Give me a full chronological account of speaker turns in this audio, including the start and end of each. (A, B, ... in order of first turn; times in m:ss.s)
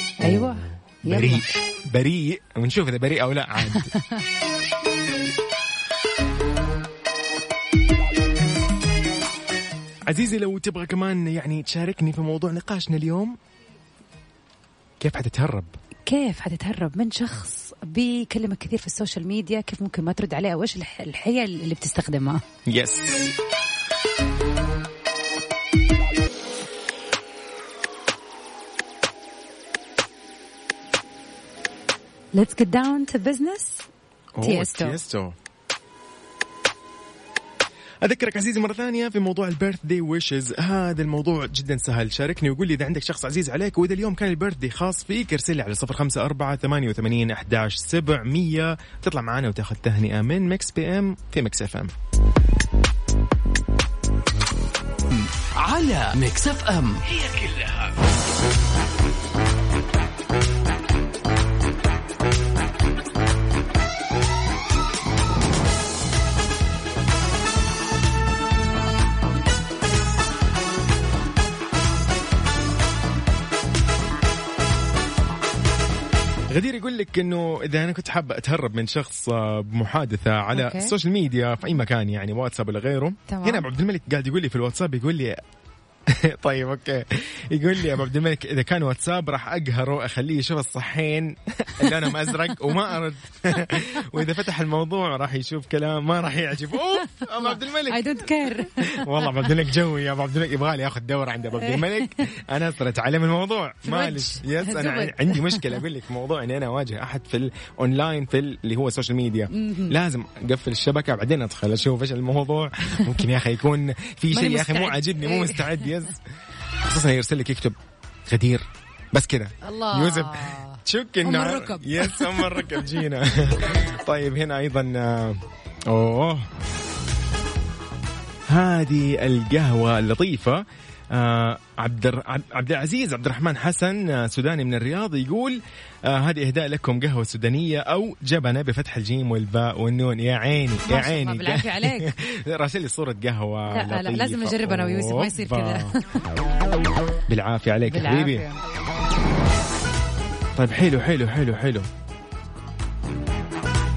0:00.2-0:01.5 A
0:00.2-0:03.9 B
0:03.7-0:04.2 A
0:10.1-0:13.4 B
0:15.0-0:15.7 B
0:16.1-0:22.4 A
0:22.6-0:23.3 B
0:32.3-0:33.8 A
0:34.4-0:35.4 B
0:34.4-0:35.0 A
0:38.0-0:51.9 B
0:55.1-0:58.0 C
1:16.5-1:25.4 B
1:20.5-1:20.9 A
1:23.3-1:23.6 A
1:26.1-1:56.2 B
1:31.8-1:32.4 A
1:33.6-1:34.2 A
1:37.2-1:39.5 A
1:41.6-1:42.1 A
1:43.8-1:45.8 A
1:49.5-1:50.0 A
1:54.3-1:56.0 A
1:56.8-1:57.8 B
1:58.3-2:06.5 B
1:59.6-2:02.9 A
2:08.5-2:25.9 B
2:20.9-2:22.1 A
2:23.7-2:26.2 A
2:27.3-2:28.4 B
2:27.9-2:28.6 A
2:30.5-2:31.9 B